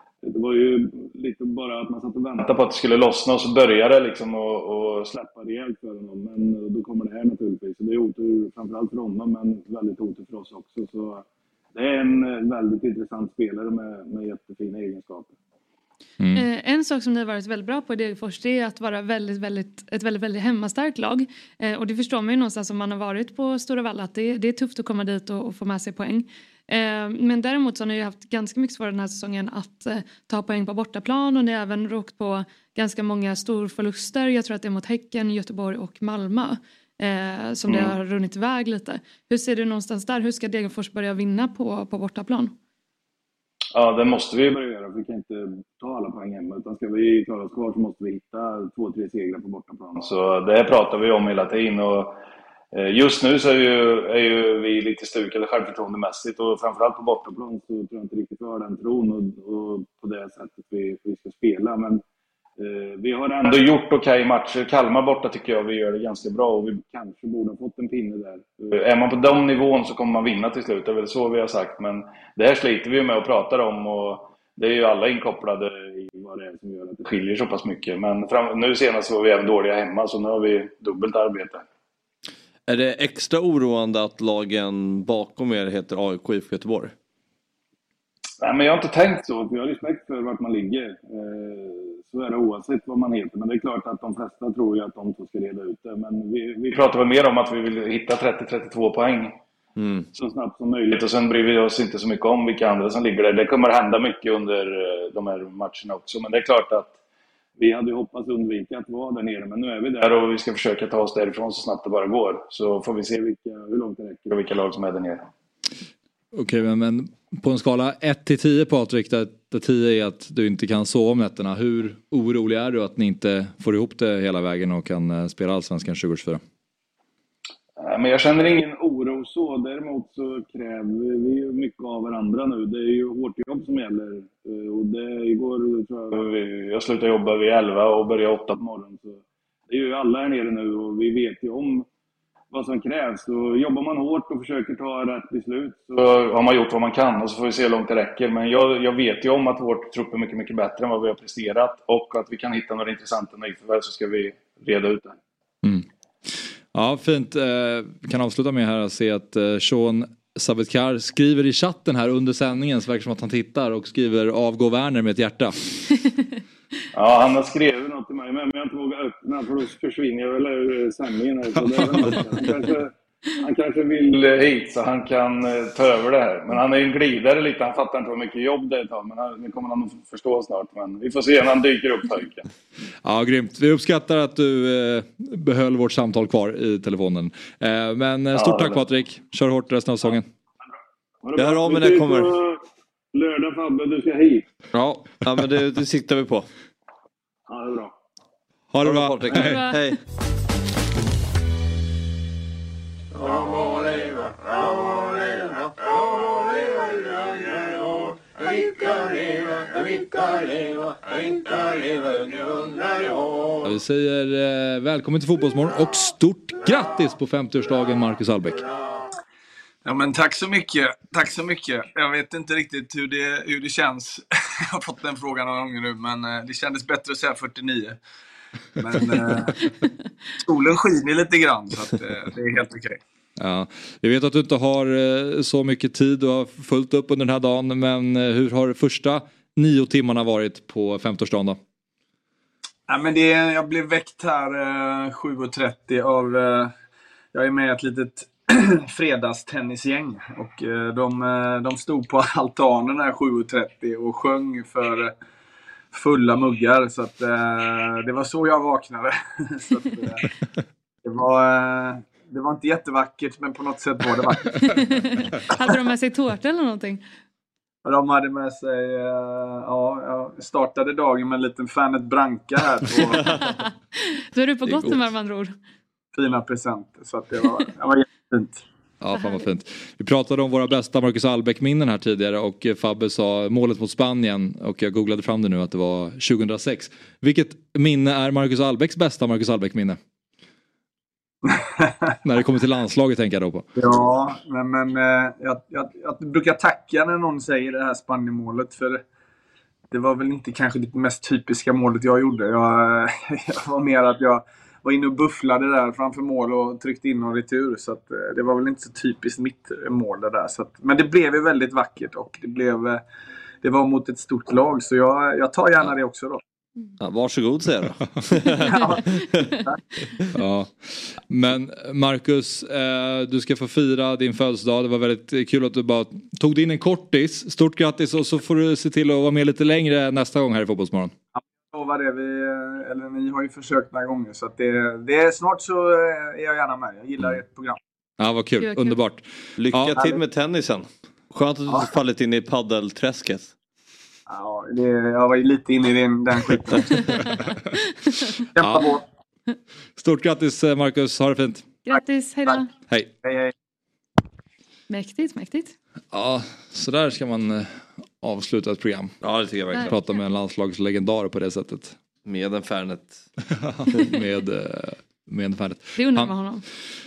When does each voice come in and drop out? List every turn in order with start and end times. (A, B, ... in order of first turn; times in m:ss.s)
0:00.2-0:15.4 A
0:16.2-0:16.4 B
0:16.3-0:42.5 C
0:37.7-0:38.0 A
0:43.7-0:52.2 A
0:52.7-1:02.0 A
1:02.6-1:21.6 A
1:22.7-1:26.9 D
1:28.4-1:39.4 A
1:39.8-1:40.1 D
1:40.1-1:47.0 A
1:47.6-1:55.2 A
1:56.3-2:06.4 B
2:07.8-2:21.9 A
2:22.5-2:35.2 A
2:35.6-2:45.7 B
2:46.9-3:02.5 A
2:51.8-2:52.2 B
3:03.0-3:10.3 B
3:08.3-3:08.8 A
3:11.2-3:12.6 A
3:11.4-3:12.3 D
3:13.1-3:14.5 A
3:14.7-3:16.5 D
3:17.5-3:17.9 A
3:18.7-3:19.7 B
3:18.8-3:20.0 D
3:19.3-3:19.9 C
3:33.6-3:38.6 B
3:39.8-3:48.0 E
3:48.8-3:49.7 E
3:50.4-3:53.0 E
3:53.4-4:01.6 B
4:02.9-4:06.7 E
4:07.3-4:15.2 E
4:15.9-4:20.3 E
4:21.0-4:24.8 E
4:24.6-4:27.0 C
4:27.8-4:33.2 E
4:33.3-4:35.6 C
4:34.6-4:35.1 D
4:36.1-4:38.6 E
4:39.0-4:50.0 B
4:51.5-4:51.9 E
4:52.2-4:53.7 B
4:53.8-4:59.0 E
4:59.9-5:13.0 E
5:13.6-5:16.4 E
5:17.0-5:19.5 D
5:18.6-5:19.1 E
5:20.3-5:31.1 B
5:31.4-5:37.8 E
5:38.2-5:40.0 B
5:38.6-5:39.0 C
5:39.6-5:43.5 D
5:44.3-5:46.9 E
5:47.0-5:47.3 C
5:48.6-5:49.0 E
5:48.6-5:48.9 B
5:50.0-5:51.7 B
5:51.9-5:52.7 C
5:53.2-5:53.5 E
5:54.9-5:55.8 C
5:56.1-6:02.0 B
5:59.2-6:00.0 D
6:02.2-6:03.3 D
6:03.6-6:06.4 B
6:06.0-6:06.6 C